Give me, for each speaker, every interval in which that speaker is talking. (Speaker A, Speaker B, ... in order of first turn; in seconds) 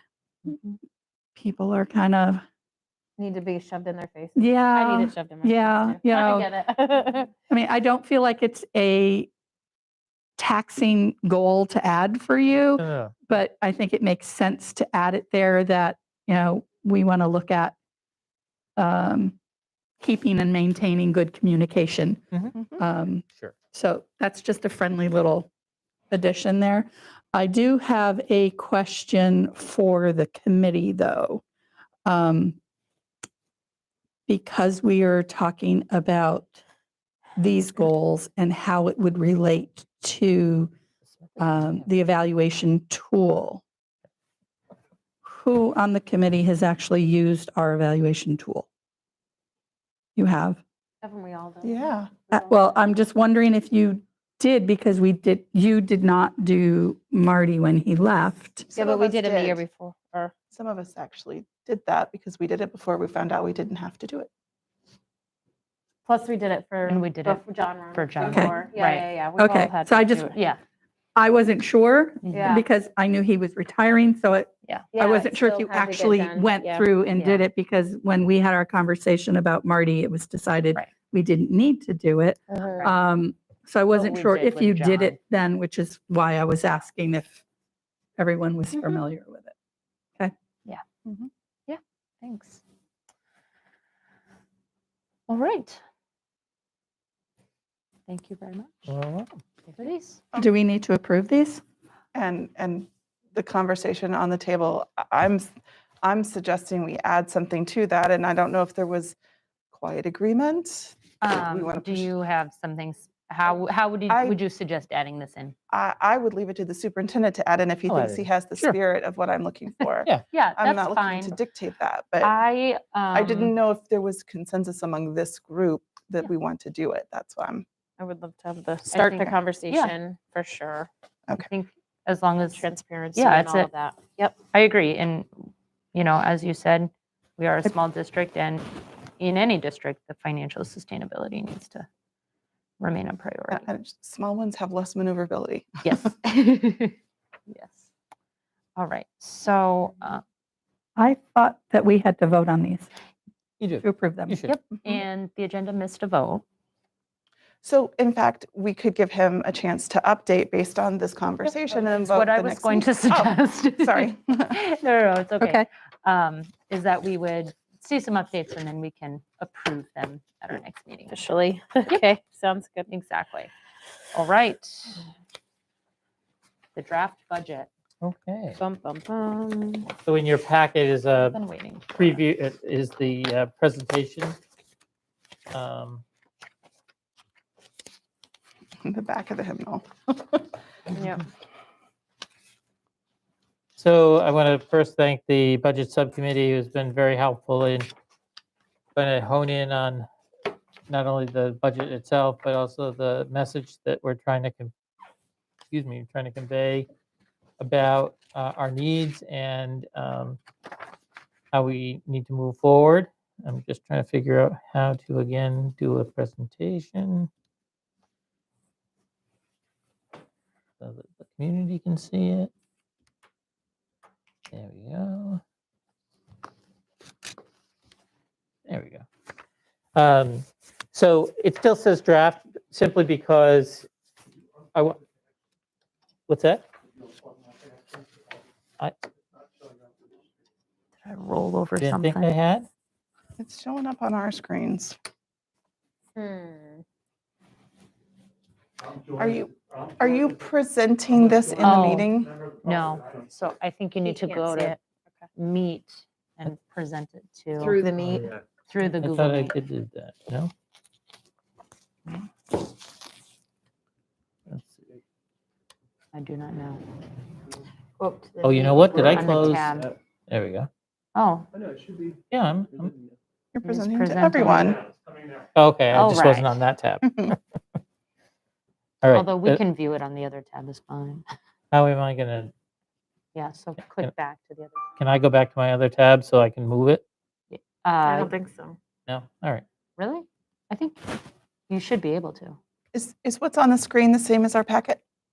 Speaker A: 1.4-2.4, 4.3-6.5, 7.5-9.3, 10.4-17.7, 18.8-19.4, 20.0-22.2, 22.8-25.5, 26.1-31.4, 32.0-32.6, 34.3-36.6, 37.4-40.7, 41.4-43.6, 45.2-48.7, 50.1-50.6, 52.5-58.7, 69.4-70.3, 71.2-87.4, 88.2-89.5, 100.3-101.6, 151.0-152.9, 153.8-154.4
Speaker B: 3.2-7.3, 51.0-52.8, 58.7-60.3, 66.0-70.4, 72.3-72.6, 74.9-77.4, 82.5-82.9, 128.0-130.9, 132.4-134.4, 171.1-172.9, 178.6-179.9, 190.9-191.2, 246.2-246.8, 251.5-251.8, 254.0-255.2, 257.6-258.3, 268.0-269.1, 288.0-288.8
Speaker C: 12.8-13.1, 41.2-41.9, 98.9-99.3, 117.9-118.8, 153.6-154.6, 178.0-178.6, 180.0-181.4, 181.9-184.3, 185.5-186.0, 193.8-197.9, 198.9-200.1, 200.9-204.7, 205.7-206.9, 207.6-210.4, 211.5-217.3, 220.8-222.5, 224.5-225.4, 228.7-229.0, 229.9-233.9, 236.3-236.7, 241.8-242.7, 257.9-260.5, 264.5-264.9, 268.4-269.8, 270.3-270.7, 272.3-273.0, 275.5-277.4, 279.0-279.6, 281.7-282.5, 285.0-287.0, 289.1-289.6
Speaker D: 22.5-22.8, 51.6-52.4, 58.7-59.6, 60.5-64.3, 102.1-109.2, 109.7-112.1, 114.1-114.4, 115.7-122.3, 123.1-127.6, 143.5-146.1, 157.6-164.6, 188.8-190.4, 243.4-244.9, 249.1-252.4, 273.5-274.8, 292.9-295.0
Speaker E: 66.9-69.1, 70.3-70.6, 72.2-72.6, 83.9-85.2, 91.7-92.6, 95.3-95.8, 98.1-98.9, 99.7-100.2, 111.2-115.5, 120.3-121.4, 122.2-123.5, 128.9-129.9, 131.4-133.7, 134.5-141.9, 142.8-143.7, 145.8-146.9, 147.5-147.9, 148.8-150.2, 154.4-156.4, 162.1-171.2, 172.9-173.5, 174.1-175.0, 176.7-177.7, 181.1-182.2, 241.0-242.3, 251.6-252.1, 252.6-254.8, 255.3-257.8, 258.7-259.6, 266.1-266.8, 269.0-269.9, 271.1-271.5, 273.6-274.9, 275.9-276.6, 279.1-281.2, 283.3-284.9, 287.5-288.4, 290.0-292.6